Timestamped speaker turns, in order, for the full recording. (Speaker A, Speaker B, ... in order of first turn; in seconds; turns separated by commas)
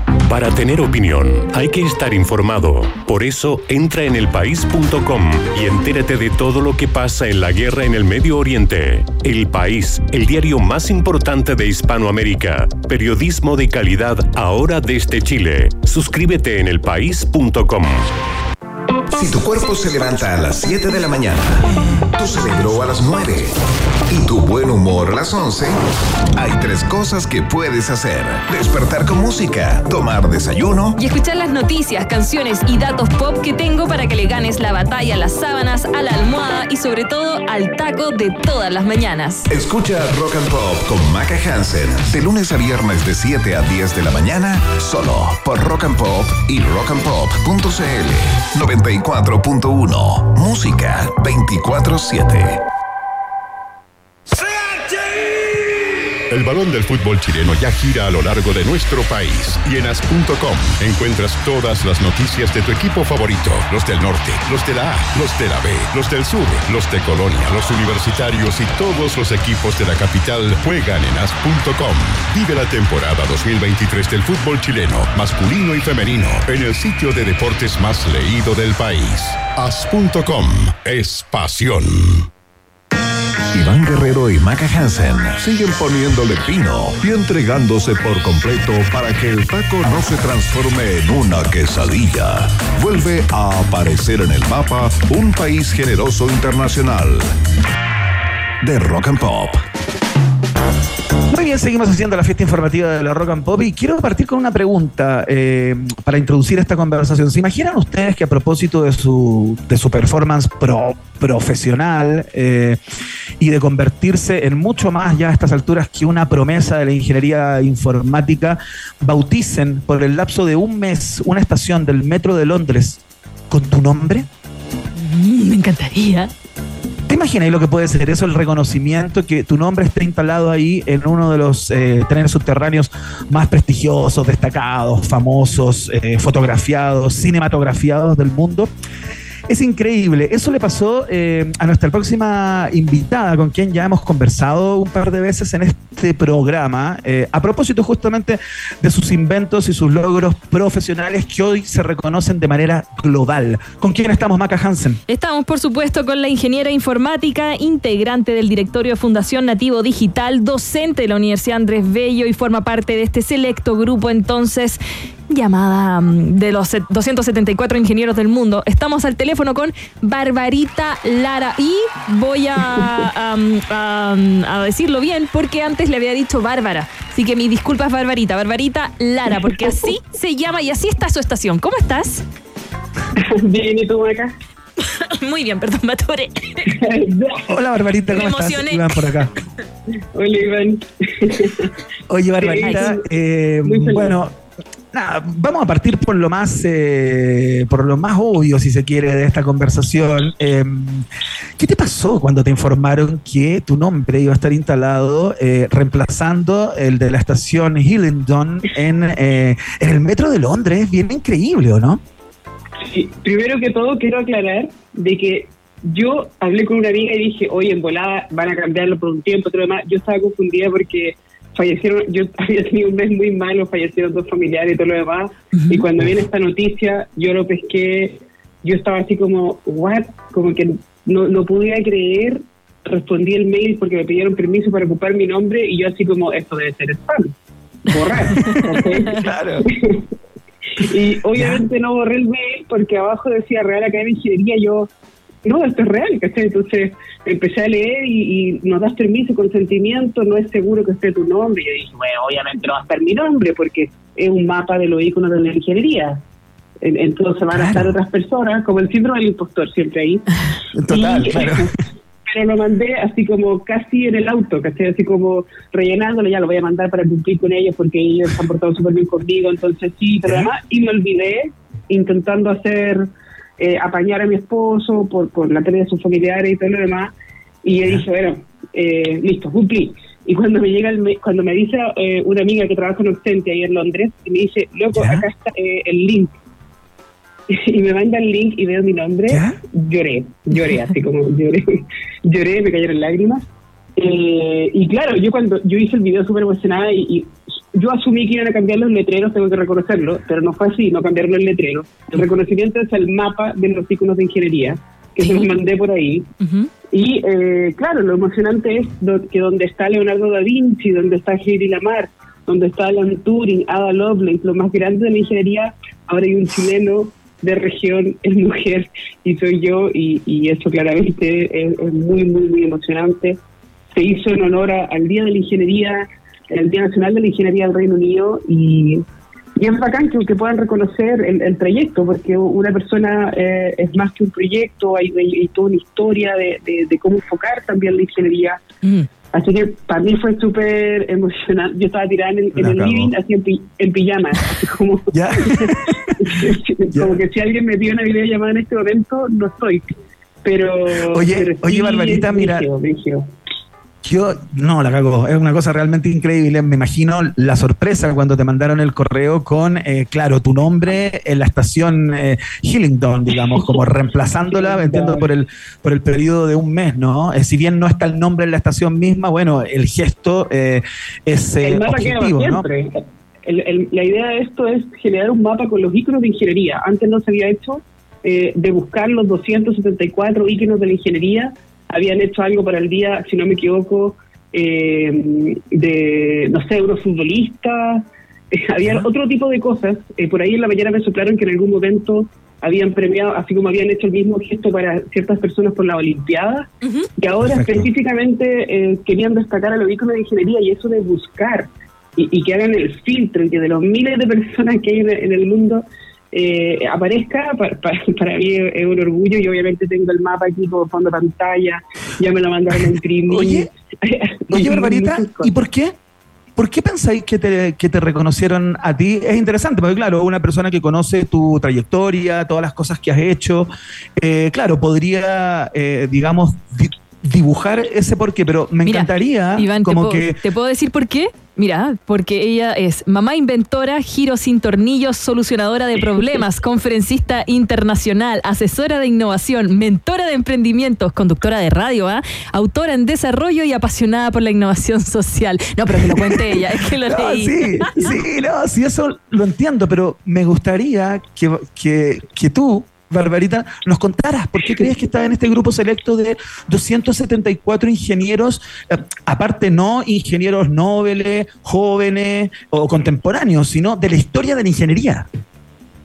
Speaker A: 0.2-18.1, Speaker B: 19.1-23.6, Speaker B: 24.1-25.8, Speaker B: 26.3-31.0, Speaker C: 31.0-39.5, Speaker B: 39.5-52.6, Speaker D: 56.3-82.3, Speaker B: 83.5-97.3, Speaker B: 98.6-99.6, Speaker E: 101.3-112.8, Speaker E: 113.4-124.3, Speaker C: 125.0-126.3, Speaker E: 127.1-138.7, Speaker E: 139.5-155.0, Speaker C: 155.1-182.2, Speaker F: 179.4-179.8, Speaker F: 183.2-184.3, Speaker C: 184.8-186.8, Speaker F: 186.7-187.5, Speaker E: 187.5-189.3, Speaker C: 188.1-189.1, Speaker F: 190.1-191.7, Speaker E: 192.1-194.3, Speaker F: 192.4-193.1, Speaker C: 192.6-192.9, Speaker F: 193.6-194.2, Speaker E: 194.9-201.1, Speaker E: 201.6-212.0, Speaker F: 212.8-237.3, Speaker C: 225.5-225.8, Speaker F: 237.9-240.0, Speaker C: 238.3-238.8, Speaker E: 239.1-239.7, Speaker F: 240.8-244.9, Speaker E: 241.3-241.7, Speaker F: 245.4-256.2, Speaker F: 256.8-260.2, Speaker E: 257.5-257.9, Speaker E: 260.8-261.7, Speaker F: 260.9-261.7, Speaker F: 262.2-286.3, Speaker E: 270.2-270.5, Speaker E: 284.9-285.3, Speaker F: 287.5-293.4, Speaker E: 289.3-289.6, Speaker F: 294.0-306.3, Speaker C: 306.4-306.7, Speaker F: 306.9-323.4, Speaker F: 323.9-329.0, Speaker F: 329.6-338.6, Speaker F: 339.3-349.9, Speaker E: 342.5-343.1, Speaker E: 345.1-346.2, Speaker E: 346.9-347.2, Speaker F: 350.4-353.3, Speaker E: 351.1-352.7, Speaker E: 354.0-372.7, Speaker F: 364.5-365.3, Speaker F: 371.6-415.5, Speaker E: 388.8-389.1, Speaker C: 396.8-397.1, Speaker E: 397.4-397.9, Speaker E: 413.3-413.7, Speaker E: 414.5-415.9, Speaker E: 416.6-430.4, Speaker C: 428.9-448.1, Speaker E: 445.9-465.3